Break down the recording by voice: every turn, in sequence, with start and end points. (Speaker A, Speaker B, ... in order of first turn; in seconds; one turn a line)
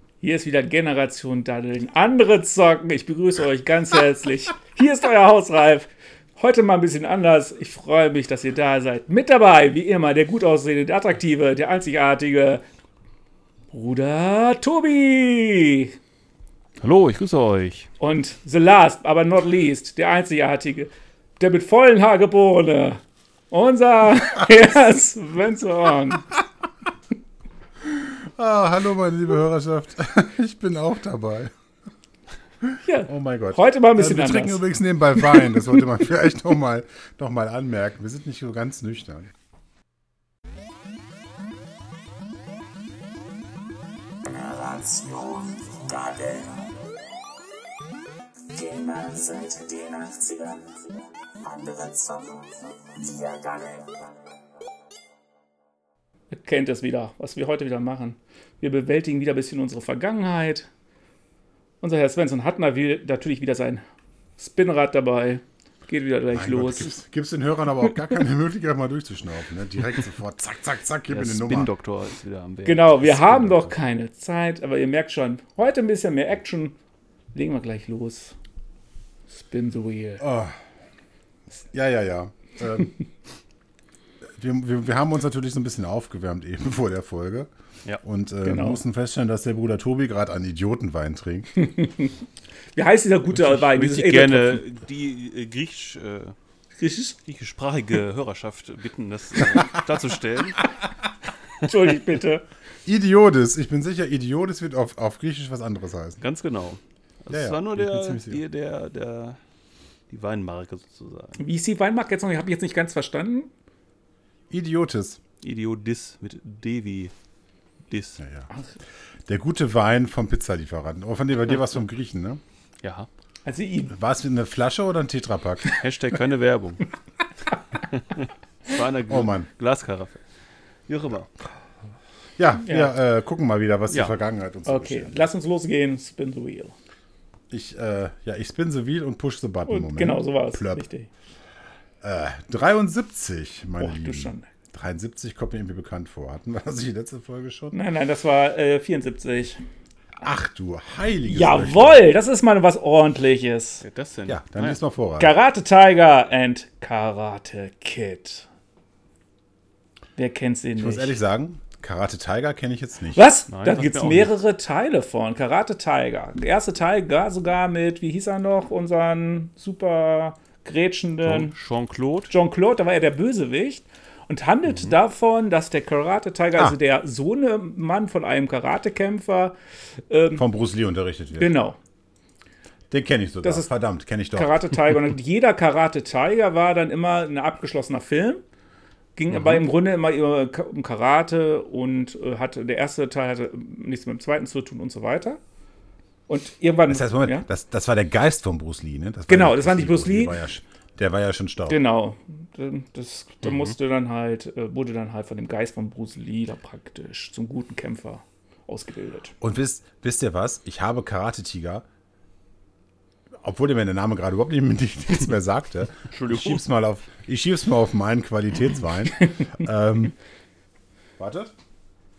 Speaker A: 0.2-12.6
Speaker A: 13.7-16.0
Speaker B: 16.8-17.9
Speaker A: 18.0-26.2
Speaker C: 27.8-31.5
Speaker C: 32.6-39.3
Speaker A: 32.8-34.6
Speaker A: 35.2-35.6
Speaker D: 44.2-46.8
Speaker D: 48.5-54.2
Speaker A: 56.3-60.7
Speaker A: 61.8-63.8
Speaker A: 64.4-66.9
Speaker C: 66.3-71.7
Speaker B: 71.1-73.7
Speaker A: 72.7-76.8
Speaker A: 77.3-78.4
Speaker A: 79.3-80.2
Speaker C: 80.2-80.5
Speaker C: 81.7-82.9
Speaker C: 84.4-87.5
Speaker C: 88.0-91.5
Speaker A: 88.4-88.8
Speaker A: 91.6-92.1
Speaker A: 92.8-94.6
Speaker B: 93.3-96.3
Speaker A: 96.8-97.2
Speaker B: 97.3-100.7
Speaker A: 101.6-102.5
Speaker C: 102.9-106.2
Speaker B: 106.2-109.4
Speaker C: 107.3-108.4
Speaker B: 110.1-111.4
Speaker A: 111.4-113.5
Speaker C: 114.5-115.2
Speaker B: 115.4-117.1
Speaker B: 117.9-118.2
Speaker C: 118.2-118.5
Speaker C: 119.3-122.4
Speaker B: 122.8-123.1
Speaker A: 123.5-123.9
Speaker C: 123.9-125.7
Speaker B: 125.7-126.8
Speaker B: 127.9-130.2
Speaker C: 129.1-129.5
Speaker B: 130.9-131.3
Speaker C: 132.4-135.3
Speaker A: 132.7-132.9
Speaker A: 134.7-136.7
Speaker C: 137.5-140.8
Speaker A: 139.7-141.1
Speaker C: 142.0-147.7
Speaker A: 143.8-144.5
Speaker A: 147.7-149.6
Speaker C: 150.2-152.1
Speaker A: 151.3-153.8
Speaker B: 153.8-154.8
Speaker C: 154.2-155.4
Speaker A: 155.2-158.5
Speaker A: 160.2-161.2
Speaker C: 160.8-163.3
Speaker A: 163.1-171.5
Speaker B: 163.5-164.3
Speaker B: 171.2-172.3
Speaker A: 172.3-179.6
Speaker A: 180.1-180.4
Speaker C: 180.4-181.5
Speaker A: 181.4-181.8
Speaker C: 182.9-184.6
Speaker A: 183.4-183.7
Speaker A: 184.3-188.4
Speaker A: 189.2-195.4
Speaker B: 189.3-189.7
Speaker A: 196.3-197.5
Speaker C: 196.9-201.8
Speaker A: 199.3-200.4
Speaker A: 201.7-209.3
Speaker B: 203.5-203.7
Speaker C: 209.4-211.8
Speaker C: 213.4-220.1
Speaker B: 216.1-216.7
Speaker C: 221.2-221.5